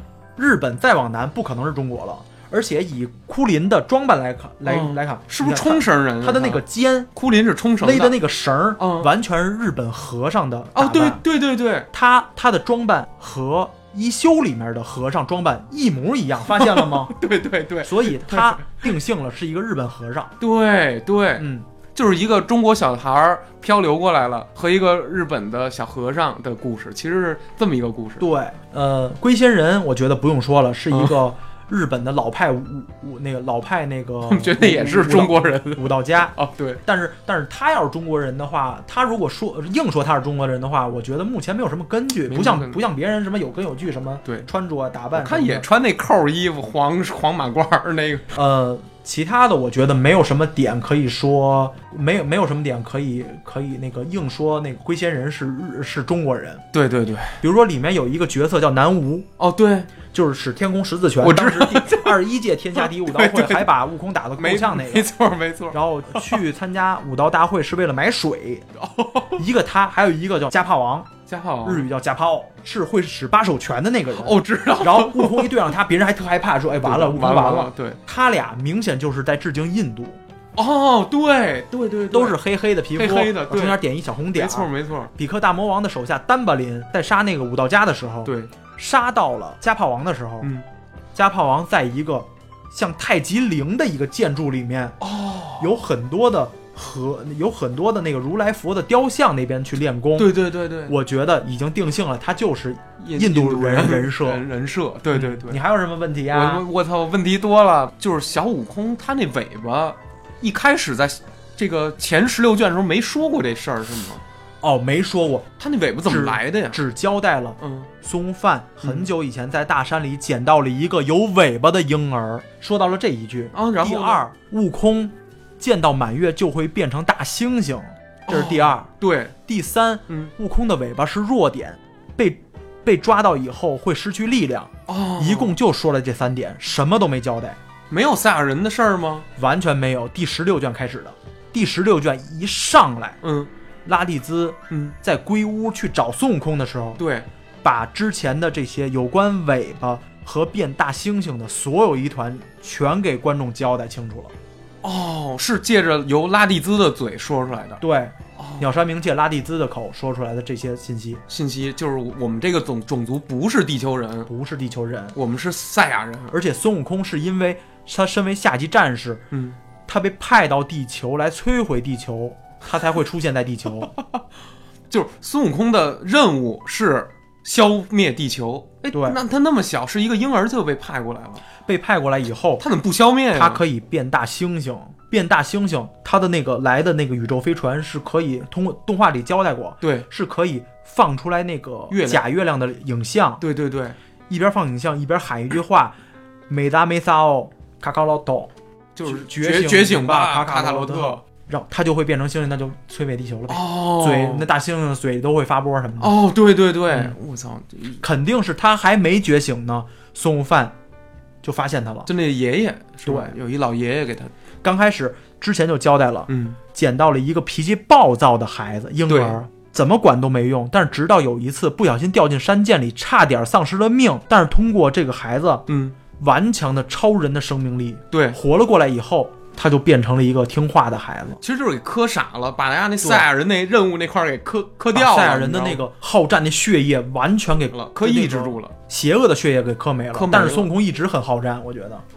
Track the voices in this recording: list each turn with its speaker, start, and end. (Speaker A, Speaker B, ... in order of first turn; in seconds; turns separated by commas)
Speaker A: 0.4-7.1, Speaker B: 4.7-6.6, Speaker B: 7.1-8.2, Speaker A: 7.8-11.2, Speaker B: 8.8-9.1, Speaker B: 10.7-11.9, Speaker A: 11.9-17.1, Speaker B: 16.5-18.9, Speaker A: 17.8-20.3, Speaker B: 20.4-28.3, Speaker A: 21.4-21.6, Speaker A: 28.2-45.6, Speaker B: 30.9-31.2, Speaker B: 34.2-36.8, Speaker B: 42.3-42.8, Speaker B: 45.1-48.3, Speaker A: 48.3-56.6, Speaker B: 56.7-57.4, Speaker A: 57.4-59.3, Speaker B: 59.4-59.9, Speaker A: 60.1-65.1, Speaker B: 61.2-62.1, Speaker B: 62.8-63.7, Speaker B: 64.4-66.3, Speaker A: 65.7-68.7, Speaker B: 68.8-69.4, Speaker A: 69.3-71.1, Speaker B: 71.3-71.9, Speaker A: 71.6-80.2, Speaker B: 74.1-75.6, Speaker B: 76.8-78.0, Speaker B: 80.5-82.4, Speaker A: 82.1-90.5, Speaker B: 82.9-83.8, Speaker B: 84.3-85.1, Speaker B: 88.2-88.5, Speaker A: 91.1-95.0, Speaker B: 95.0-95.8, Speaker A: 95.6-104.4, Speaker B: 100.2-101.0, Speaker B: 103.0-105.6, Speaker A: 105.1-106.6, Speaker B: 106.3-114.2, Speaker A: 114.6-115.5, Speaker B: 115.6-116.8, Speaker A: 116.0-137.6, Speaker B: 117.6-117.9, Speaker B: 118.8-119.1, Speaker B: 123.5-124.3, Speaker B: 128.3-129.3, Speaker B: 134.9-135.6, Speaker B: 137.9-139.2, Speaker A: 139.4-143.2, Speaker B: 143.2-143.5, Speaker A: 143.8-147.0, Speaker B: 144.7-144.9, Speaker B: 147.0-147.3, Speaker A: 147.6-154.3, Speaker B: 154.8-157.8, Speaker A: 157.8-161.2, Speaker B: 158.4-158.7, Speaker B: 161.3-164.3, Speaker A: 164.3-165.2, Speaker B: 165.1-166.3, Speaker A: 166.3-169.2, Speaker B: 169.3-169.6, Speaker A: 169.8-173.9, Speaker B: 174.9-181.4, Speaker A: 178.9-179.2, Speaker A: 181.6-182.6, Speaker B: 182.6-183.6, Speaker A: 183.3-193.4, Speaker B: 189.8-190.1, Speaker B: 191.9-192.2, Speaker B: 193.4-193.9, Speaker A: 194.3-195.9, Speaker A: 196.5-198.5, Speaker B: 198.9-201.2, Speaker A: 199.0-206.1, Speaker B: 203.5-204.5, Speaker B: 206.0-208.0, Speaker A: 208.0-210.7, Speaker A: 211.4-212.1, Speaker B: 212.1-214.3, Speaker A: 213.1-213.3, Speaker A: 214.6-231.4, Speaker B: 216.3-216.6, Speaker B: 219.1-219.4, Speaker B: 225.7-225.9, Speaker B: 228.1-228.4, Speaker B: 231.4-235.8, Speaker A: 233.0-233.3, Speaker A: 234.9-242.0, Speaker B: 237.7-238.7, Speaker B: 240.1-240.7